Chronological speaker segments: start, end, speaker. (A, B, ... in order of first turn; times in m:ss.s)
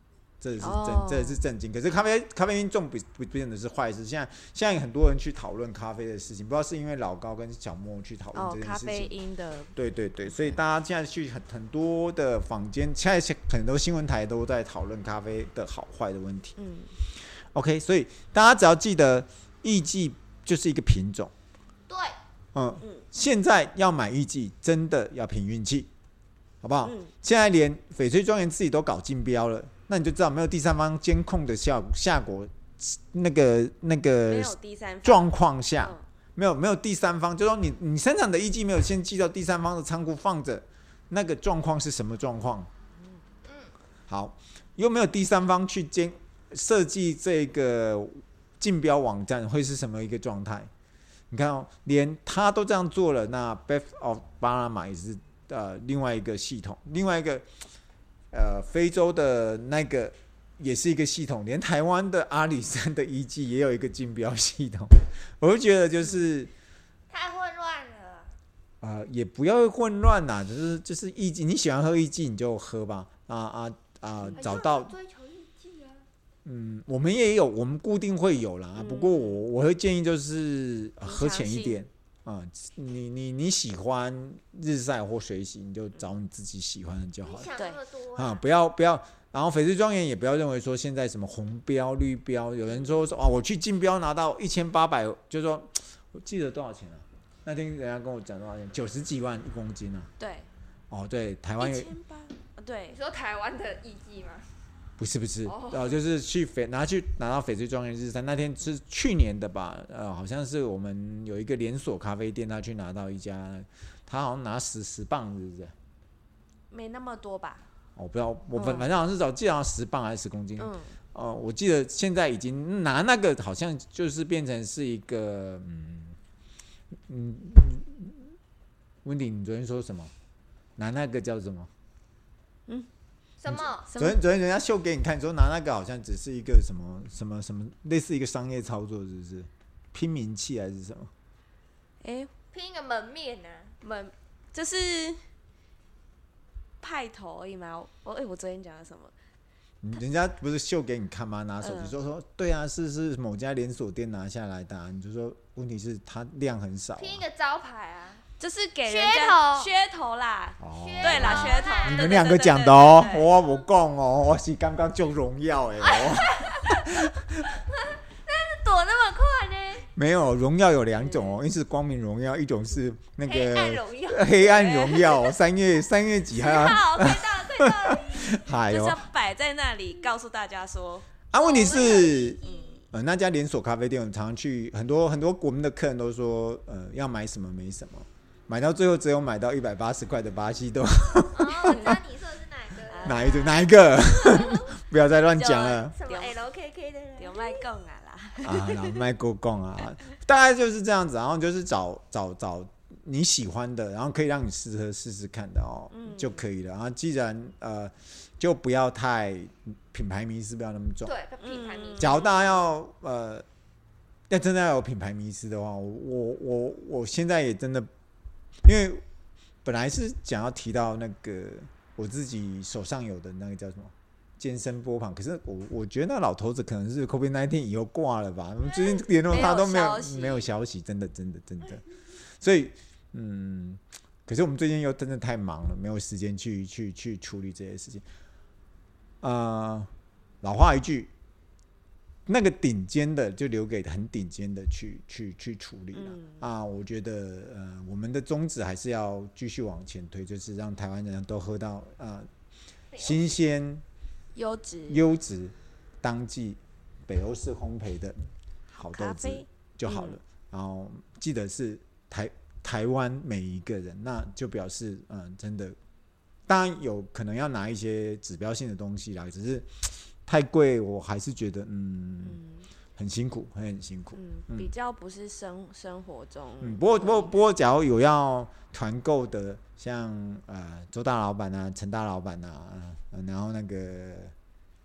0:00.4-0:09.2 A
0:00.6-0:01.4 B
0:08.3-0:10.6 B
0:09.8-0:16.6 A
0:16.6-0:16.9 B
0:17.2-0:21.3 A
0:21.9-0:22.1 C
0:22.5-0:25.9 A
0:26.6-0:42.7 A
0:26.8-0:27.1 B
0:34.2-0:36.0 B
0:43.4-0:43.7 C
0:44.1-0:50.7 A
0:51.3-0:57.4 A
0:58.3-1:06.5 A
1:07.1-1:08.4 C
1:08.8-1:14.9 A
1:14.4-1:16.1 C
1:16.4-1:27.5 A
1:18.8-1:19.4 B
1:21.0-1:21.8 B
1:27.2-1:28.4 C
1:28.2-1:40.1 A
1:32.7-1:33.2 B
1:40.2-1:40.5 B
1:40.9-1:41.9 A
1:41.6-1:43.0 B
1:42.9-1:44.4 C
1:45.0-1:55.7 A
1:45.4-1:45.8 C
1:56.7-1:57.6 B
1:58.0-2:06.2 A
1:58.6-1:58.9 B
2:00.6-2:01.0 B
2:07.1-2:08.4 A
2:09.0-2:10.1 A
2:10.8-2:11.7 A
2:13.4-2:13.9 C
2:13.5-2:21.1 A
2:13.9-2:14.2 B
2:22.0-2:22.3 B
2:22.5-2:23.8 C
2:23.8-2:25.2 B
2:26.8-2:29.1 B
2:29.8-2:37.2 A
2:31.6-2:31.9 B
2:37.0-2:38.2 C
2:38.4-2:43.3 B
2:38.8-2:39.7 C
2:40.6-2:47.3 A
2:40.7-2:42.1 C
2:45.8-2:47.0 C
2:48.3-2:49.9 C
2:49.9-2:59.0 A
2:51.0-2:51.4 B
2:53.2-2:55.4 C
2:54.5-2:54.9 B
2:56.4-2:58.4 C
2:56.4-2:57.1 B
2:58.6-3:01.1 B
3:01.3-3:12.0 A
3:01.4-3:02.8 C
3:02.4-3:02.8 B
3:11.3-3:14.7 C
3:11.6-3:12.0 B
3:12.9-3:13.6 B
3:13.0-3:16.0 A
3:15.3-3:16.4 B
3:15.9-3:17.6 C
3:17.2-3:19.0 B
3:18.4-3:31.2 A
3:25.9-3:26.4 B
3:31.0-3:32.3 C
3:31.4-3:32.6 B
3:32.0-3:33.4 A
3:34.3-3:37.9 A
3:38.6-3:39.0 A
3:39.6-3:51.8 A
3:48.6-3:49.1 C
3:49.3-3:50.5 B
3:52.4-3:58.0 A
3:59.2-3:59.9 A
4:00.4-4:01.1 A
4:02.3-4:12.3 A
4:05.9-4:06.4 B
4:12.9-4:13.2 C
4:13.0-4:13.8 A
4:14.4-4:15.1 B
4:14.9-4:18.2 A
4:18.7-4:20.2 B
4:18.8-4:25.8 A
4:26.5-4:32.4 A
4:32.2-4:32.7 B
4:33.0-4:34.7 A
4:34.2-4:37.4 B
4:36.6-4:44.3 A